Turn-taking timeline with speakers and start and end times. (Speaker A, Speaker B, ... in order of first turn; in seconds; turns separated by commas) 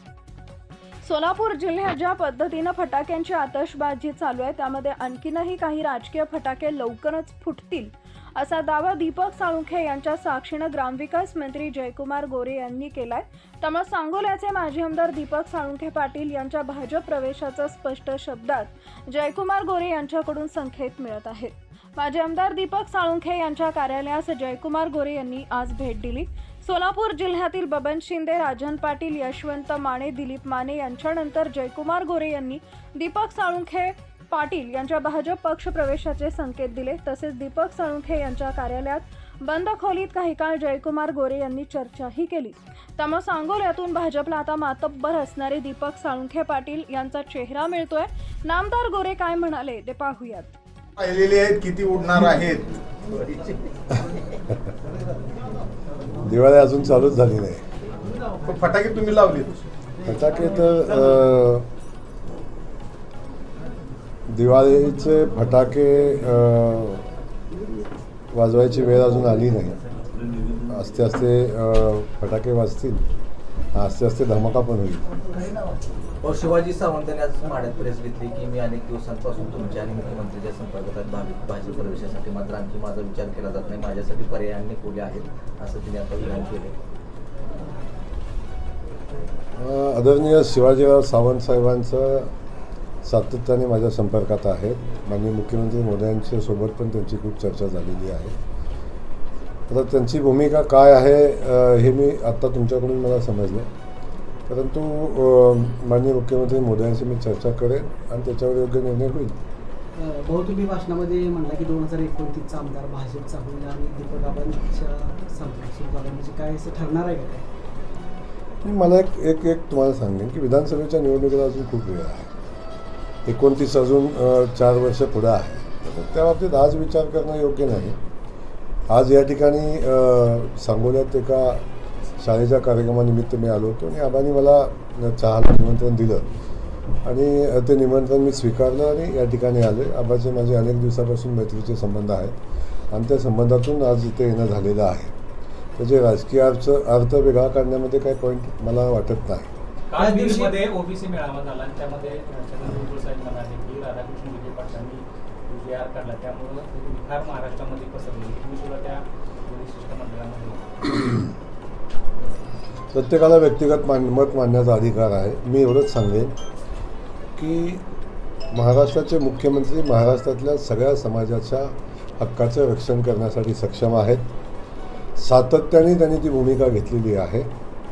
Speaker A: 1.0-50.5, Speaker B: 51.0-52.7, Speaker C: 56.2-57.6, Speaker B: 58.4-59.6, Speaker C: 60.0-61.7, Speaker C: 64.3-67.1, Speaker C: 68.3-69.8, Speaker C: 70.7-73.0, Speaker C: 73.7-75.1, Speaker D: 76.2-86.8, Speaker C: 89.6-92.3, Speaker C: 93.0-98.4, Speaker C: 99.7-103.7, Speaker C: 104.5-109.3, Speaker E: 109.9-117.5, Speaker C: 118.6-122.3, Speaker C: 123.2-128.0, Speaker C: 128.9-131.7, Speaker C: 132.2-136.3, Speaker C: 137.0-142.3, Speaker C: 142.9-145.1, Speaker C: 145.8-149.5, Speaker F: 149.9-160.8, Speaker E: 150.0-150.6, Speaker C: 162.9-166.3, Speaker C: 167.4-167.8, Speaker C: 168.5-174.3, Speaker C: 175.2-177.5